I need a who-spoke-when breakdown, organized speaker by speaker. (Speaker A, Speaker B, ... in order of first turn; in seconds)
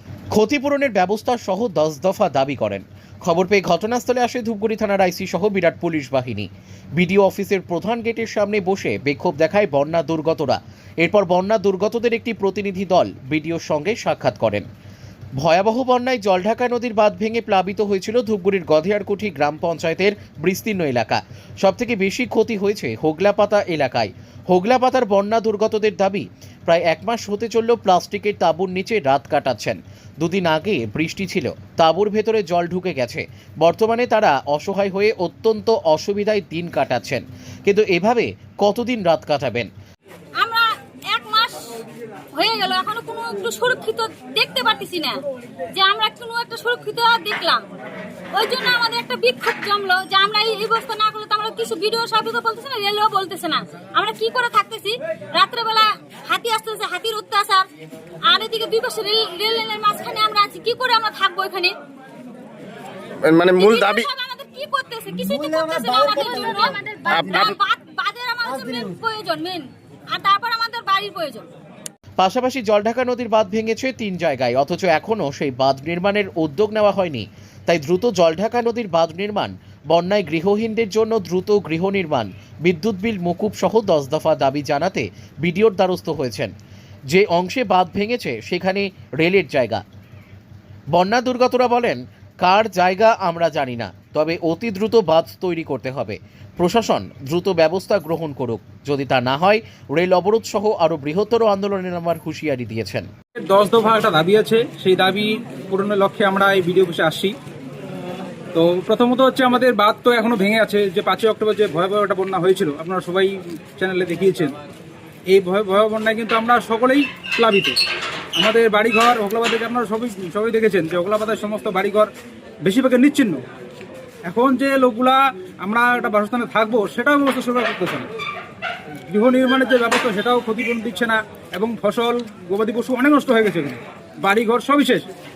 Speaker A: 0.3-14.6, 15.4-39.7, 72.2-86.5, 87.1-89.8, 90.9-103.1
Speaker B: 40.4-41.7, 42.3-45.2, 45.7-47.6, 48.3-57.7, 58.2-61.7, 63.5-71.5
Speaker C: 63.2-64.1, 65.3-66.6, 67.1-67.6
Speaker D: 103.4-107.3, 108.5-114.5, 115.3-117.8, 118.4-122.1, 122.6-123.4, 124.3-128.1, 129.1-135.1